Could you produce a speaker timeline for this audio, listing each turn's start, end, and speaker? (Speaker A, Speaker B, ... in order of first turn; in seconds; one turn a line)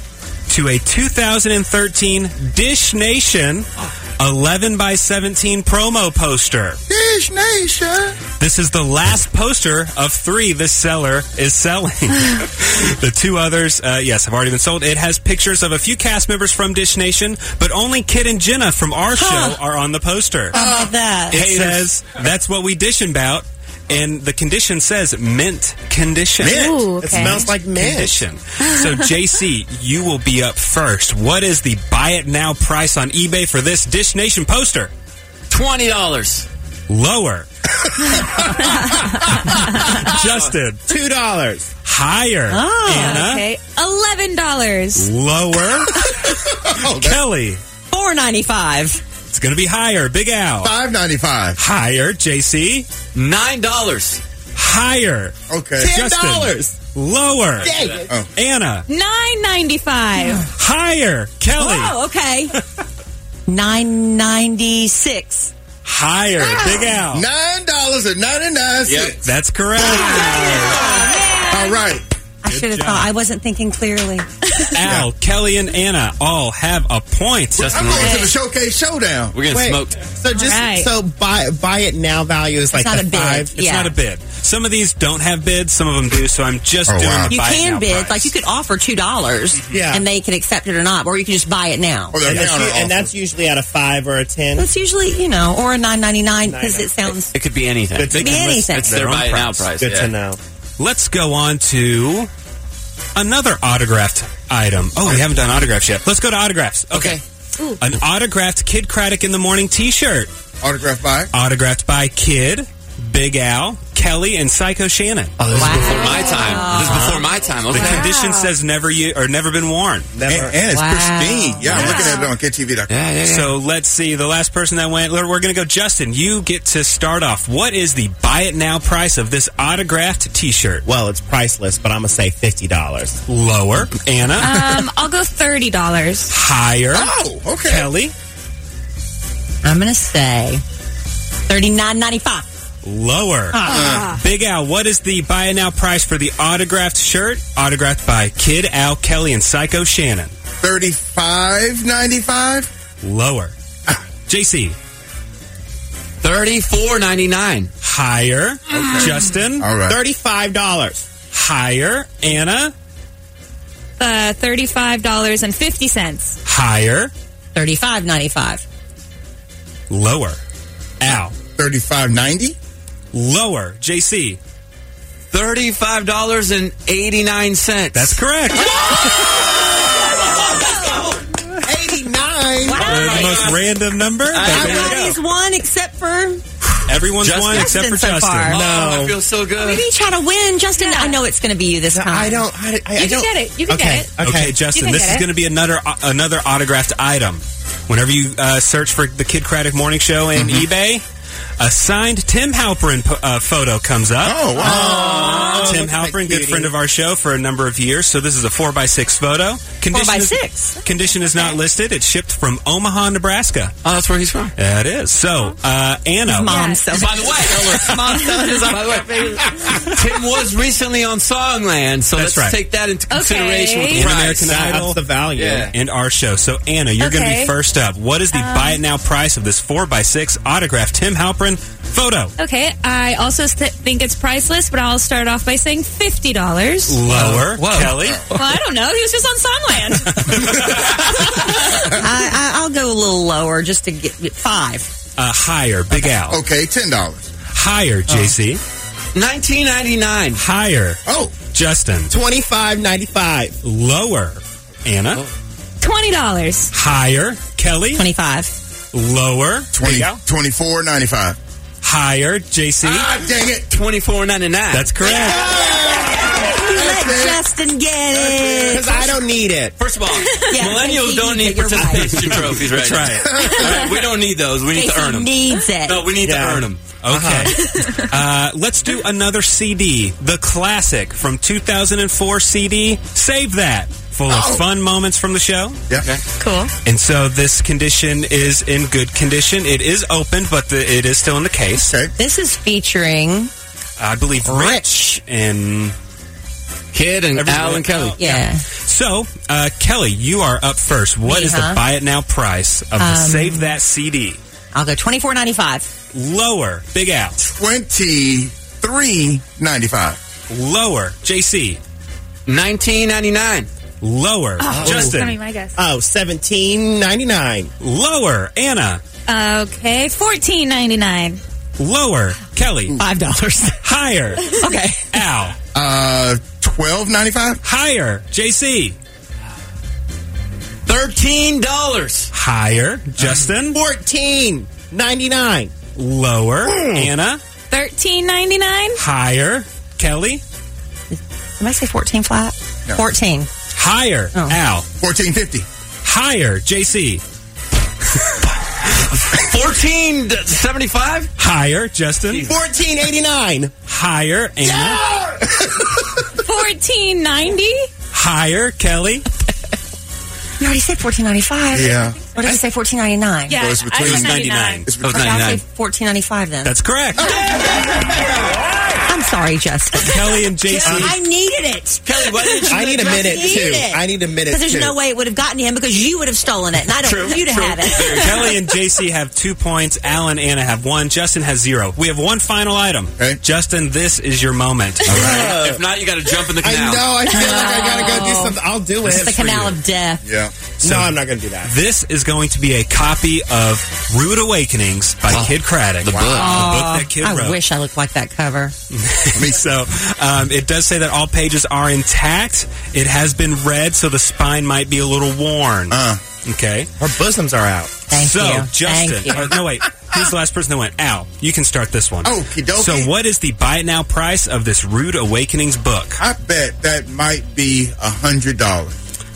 Speaker A: 0.5-6.8
Speaker B: 6.9-8.2
Speaker A: 8.4-20.6
Speaker C: 19.1-19.6
Speaker B: 20.5-20.9
Speaker C: 20.5-21.7
Speaker A: 21.3-34.9
Speaker D: 26.4-28.2
Speaker E: 26.5-27.5
Speaker F: 35.5-36.5
Speaker A: 36.9-37.5
Speaker B: 38.0-38.9
Speaker A: 39.4-40.9
Speaker F: 40.0-40.5
Speaker D: 40.9-41.7
Speaker A: 41.8-43.5
Speaker C: 42.5-43.2
Speaker E: 42.9-45.1
Speaker A: 45.0-47.6
Speaker B: 46.0-47.2
Speaker C: 47.9-49.0
Speaker A: 49.3-50.7
Speaker B: 50.6-51.6
Speaker A: 51.6-52.9
Speaker F: 53.1-54.2
Speaker A: 54.5-57.7
Speaker B: 55.5-55.9
Speaker D: 55.8-56.8
Speaker D: 57.6-58.1
Speaker F: 57.7-58.0
Speaker A: 58.3-58.9
Speaker E: 58.9-60.5
Speaker A: 60.5-61.9
Speaker C: 61.5-62.5
Speaker C: 63.5-65.5
Speaker A: 65.8-67.2
Speaker B: 66.6-69.3
Speaker F: 68.8-69.2
Speaker A: 69.2-71.0
Speaker C: 69.8-71.8
Speaker B: 71.5-72.0
Speaker C: 72.4-74.3
Speaker A: 72.5-73.1
Speaker A: 74.7-77.9
Speaker B: 74.8-75.1
Speaker F: 77.5-78.3
Speaker B: 77.7-79.4
Speaker E: 77.9-78.3
Speaker F: 79.3-80.0
Speaker D: 79.5-83.5
Speaker E: 80.3-80.9
Speaker C: 82.7-83.9
Speaker A: 83.2-88.3
Speaker B: 86.9-87.3
Speaker C: 87.3-92.2
Speaker D: 89.7-90.0
Speaker B: 92.1-93.1
Speaker D: 92.2-94.7
Speaker C: 94.5-97.3
Speaker D: 96.5-96.9
Speaker F: 97.3-100.1
Speaker D: 98.0-98.7
Speaker C: 98.1-99.0
Speaker A: 98.1-99.6
Speaker D: 99.7-100.4
Speaker A: 100.8-102.3
Speaker A: 103.1-107.2
Speaker F: 106.9-107.2
Speaker A: 107.8-110.3
Speaker B: 110.6-111.3
Speaker A: 111.3-115.4
Speaker F: 115.4-118.1
Speaker C: 115.5-118.5
Speaker A: 116.7-117.2
Speaker A: 117.7-120.1
Speaker D: 120.1-120.6
Speaker B: 120.3-122.9
Speaker C: 120.7-122.1
Speaker E: 121.7-122.3
Speaker A: 121.7-122.0
Speaker F: 122.9-123.5
Speaker A: 123.2-130.8
Speaker D: 130.8-133.2
Speaker A: 133.3-134.6
Speaker E: 134.4-136.3
Speaker A: 136.3-137.1
Speaker B: 136.9-137.9
Speaker A: 137.6-138.1
Speaker C: 139.6-140.6
Speaker C: 141.5-142.4
Speaker A: 142.8-150.3
Speaker C: 143.5-144.1
Speaker B: 143.6-144.2
Speaker E: 143.7-144.0
Speaker B: 150.6-152.7
Speaker A: 153.0-153.5
Speaker A: 154.3-154.8
Speaker F: 156.2-157.7
Speaker A: 157.8-159.7
Speaker B: 158.7-160.0
Speaker D: 159.8-161.0
Speaker A: 161.3-162.7
Speaker E: 164.0-166.4
Speaker A: 166.4-167.1
Speaker C: 167.5-168.6
Speaker A: 169.9-170.4
Speaker A: 171.0-171.3
Speaker B: 171.6-172.6
Speaker A: 173.1-174.4
Speaker F: 175.3-178.2
Speaker A: 177.9-179.2
Speaker F: 180.2-181.2
Speaker D: 181.6-183.3
Speaker C: 182.6-183.6
Speaker F: 182.8-183.6
Speaker A: 182.8-185.2
Speaker F: 184.3-185.1
Speaker C: 184.4-186.4
Speaker D: 184.6-184.8
Speaker A: 186.8-188.6
Speaker F: 187.2-187.7
Speaker C: 187.5-188.6
Speaker D: 188.5-189.2
Speaker F: 188.5-189.8
Speaker C: 189.6-192.4
Speaker E: 190.8-191.2
Speaker D: 191.9-194.6
Speaker E: 192.9-195.2
Speaker A: 194.2-201.0
Speaker B: 200.3-200.7
Speaker A: 201.6-213.7
Speaker B: 204.2-205.3
Speaker D: 204.6-206.7
Speaker F: 205.1-205.5
Speaker C: 209.9-210.8
Speaker F: 213.8-214.5
Speaker A: 214.6-216.6
Speaker C: 216.3-218.8
Speaker E: 216.4-216.8
Speaker F: 216.9-224.5
Speaker E: 217.9-218.8
Speaker A: 222.1-222.6
Speaker E: 223.1-224.1
Speaker A: 223.9-225.0
Speaker D: 224.3-225.7
Speaker F: 225.3-225.7
Speaker A: 225.7-232.3
Speaker E: 227.0-227.5
Speaker E: 228.3-228.8
Speaker E: 232.4-237.1
Speaker A: 236.9-238.3
Speaker F: 237.1-238.0
Speaker E: 238.3-240.5
Speaker A: 240.2-240.5
Speaker C: 241.8-244.9
Speaker A: 245.2-246.4
Speaker B: 246.3-247.3
Speaker A: 247.5-248.6
Speaker F: 249.1-250.4
Speaker A: 250.4-251.0
Speaker B: 251.1-251.3
Speaker A: 251.5-252.1
Speaker D: 252.1-253.6
Speaker A: 253.6-255.2
Speaker E: 255.8-256.7
Speaker A: 256.7-258.0
Speaker C: 257.9-258.5
Speaker A: 258.9-260.2
Speaker B: 259.7-261.4
Speaker A: 261.8-263.1
Speaker B: 262.8-263.7
Speaker F: 263.7-264.9
Speaker A: 264.7-265.5
Speaker D: 265.2-266.2
Speaker B: 265.2-267.4
Speaker C: 265.4-269.1
Speaker B: 268.1-269.0
Speaker D: 268.7-269.7
Speaker F: 269.8-276.8
Speaker C: 270.3-272.4
Speaker A: 271.9-273.7
Speaker B: 273.2-273.8
Speaker C: 274.7-276.1
Speaker D: 276.2-277.6
Speaker A: 277.0-285.8
Speaker E: 277.7-278.0
Speaker B: 284.3-284.6
Speaker F: 286.0-286.2
Speaker E: 286.4-286.7
Speaker A: 286.8-291.9
Speaker B: 291.8-292.1
Speaker C: 292.2-293.5
Speaker A: 294.0-295.9
Speaker C: 294.4-295.0
Speaker F: 296.9-298.2
Speaker A: 297.4-304.4
Speaker C: 298.2-298.6
Speaker C: 301.2-301.8
Speaker C: 303.0-303.8
Speaker C: 304.7-305.9
Speaker A: 306.1-307.4
Speaker B: 307.4-310.2
Speaker A: 310.5-311.8
Speaker F: 312.5-313.7
Speaker A: 314.0-315.4
Speaker E: 314.6-315.8
Speaker F: 314.7-315.1
Speaker D: 315.8-317.7
Speaker A: 317.8-319.0
Speaker E: 319.3-321.4
Speaker A: 321.8-323.0
Speaker C: 323.0-323.8
Speaker A: 323.8-324.6
Speaker C: 324.5-325.1
Speaker A: 325.1-325.6
Speaker B: 325.7-327.6
Speaker A: 327.6-328.9
Speaker F: 330.9-332.3
Speaker A: 332.3-333.8
Speaker D: 333.7-335.7
Speaker A: 335.9-337.4
Speaker D: 336.7-337.1
Speaker E: 337.7-339.0
Speaker A: 339.0-340.4
Speaker C: 341.1-343.5
Speaker A: 343.8-344.9
Speaker B: 345.0-345.7
Speaker A: 346.0-347.2
Speaker F: 349.1-351.3
Speaker A: 351.4-352.5
Speaker D: 352.4-353.7
Speaker A: 353.9-355.0
Speaker D: 354.8-355.4
Speaker E: 356.4-357.9
Speaker A: 358.1-359.3
Speaker C: 360.6-363.6
Speaker B: 361.7-362.2
Speaker E: 363.5-364.9
Speaker B: 363.6-365.4
Speaker A: 363.9-364.9
Speaker F: 365.0-365.6
Speaker C: 365.0-366.8
Speaker A: 366.6-367.3
Speaker B: 367.2-368.0
Speaker C: 369.1-378.4
Speaker A: 370.0-371.1
Speaker D: 370.8-371.1
Speaker F: 372.0-373.7
Speaker D: 372.7-374.9
Speaker F: 377.0-378.5
Speaker A: 378.1-385.5
Speaker B: 385.1-385.5
Speaker F: 385.1-387.2
Speaker D: 385.1-385.8
Speaker D: 386.6-389.6
Speaker C: 387.3-388.5
Speaker C: 389.0-390.2
Speaker B: 390.2-390.6
Speaker D: 390.8-391.7
Speaker A: 390.8-397.6
Speaker F: 395.3-396.7
Speaker B: 396.1-396.6
Speaker C: 396.4-398.7
Speaker A: 398.9-406.9
Speaker B: 399.3-399.6
Speaker B: 405.9-406.2
Speaker D: 407.0-408.0
Speaker C: 408.1-409.5
Speaker A: 408.1-416.2
Speaker B: 412.2-413.1
Speaker B: 416.2-418.9